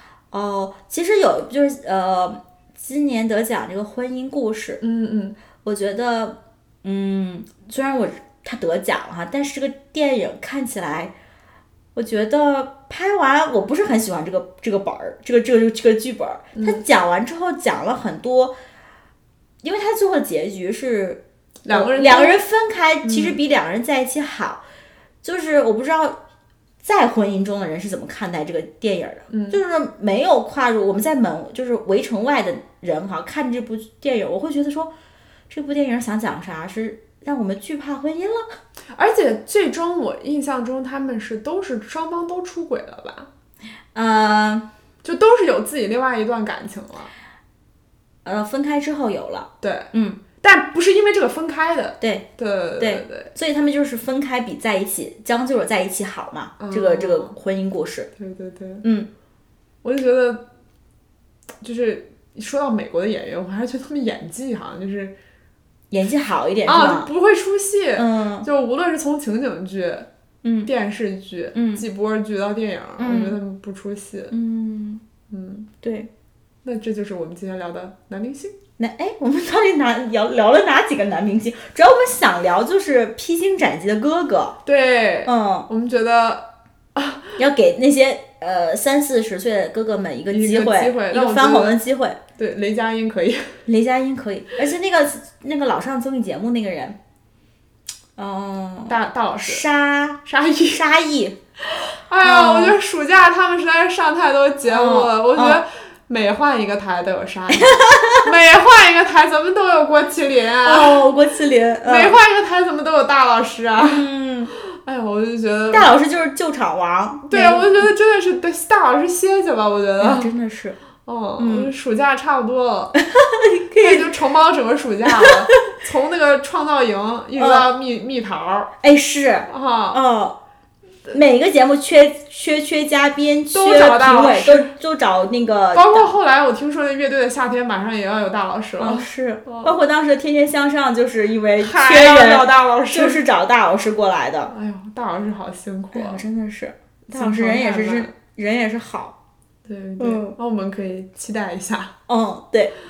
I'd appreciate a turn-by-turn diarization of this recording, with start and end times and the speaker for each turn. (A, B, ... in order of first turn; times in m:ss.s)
0:00.3-0:04.8 A
0:04.8-0:05.4 B
0:05.6-0:11.1 A
0:12.0-0:18.5 A
0:16.6-0:16.8 B
0:19.6-0:24.6 A
0:21.6-0:22.4 B
0:23.0-0:23.4 B
0:25.2-0:26.2 A
0:26.8-0:34.9 A
0:29.3-0:29.6 B
0:35.5-0:38.6 A
0:38.9-0:43.3 B
0:44.0-0:44.7 A
0:45.0-0:47.1 B
0:48.2-0:50.2 A
0:49.6-0:49.9 B
0:50.4-0:53.3 B
0:52.0-0:52.3 A
0:52.8-0:58.1 A
0:56.6-0:57.3 B
0:58.2-0:58.8 B
0:58.8-0:59.1 A
0:59.8-1:00.4 B
1:01.6-1:05.1 B
1:05.9-1:07.1 A
1:06.6-1:10.1 B
1:08.0-1:08.5 A
1:10.4-1:10.7 A
1:10.6-1:14.3 B
1:11.6-1:11.8 A
1:13.0-1:13.4 A
1:14.3-1:15.0 A
1:15.3-1:15.7 B
1:15.8-1:16.1 A
1:16.6-1:18.6 B
1:18.8-1:24.6 A
1:24.6-1:27.4 B
1:25.2-1:25.7 A
1:27.4-1:32.2 A
1:30.3-1:31.8 B
1:32.4-1:33.6 B
1:33.6-1:37.0 A
1:38.2-1:40.2 A
1:38.9-1:39.6 B
1:40.2-1:40.8 B
1:40.7-1:41.4 A
1:41.6-1:51.1 B
1:42.2-1:42.8 A
1:44.6-1:45.6 A
1:47.5-1:48.3 A
1:50.6-1:52.2 A
1:51.8-1:54.0 B
1:53.8-1:54.5 A
1:54.7-1:56.0 B
1:55.7-1:57.9 A
1:57.3-2:00.3 B
2:00.0-2:00.8 A
2:01.0-2:02.9 B
2:01.4-2:01.7 A
2:03.0-2:04.1 A
2:03.8-2:08.7 B
2:05.1-2:05.7 A
2:07.4-2:07.7 A
2:08.8-2:10.4 A
2:09.5-2:10.0 B
2:11.1-2:16.1 A
2:13.5-2:14.7 B
2:15.7-2:19.8 B
2:18.8-2:24.5 A
2:21.6-2:23.2 B
2:24.5-2:26.2 B
2:25.9-2:29.1 A
2:27.1-2:28.1 B
2:29.6-2:31.9 B
2:30.0-2:30.4 A
2:32.1-2:32.7 A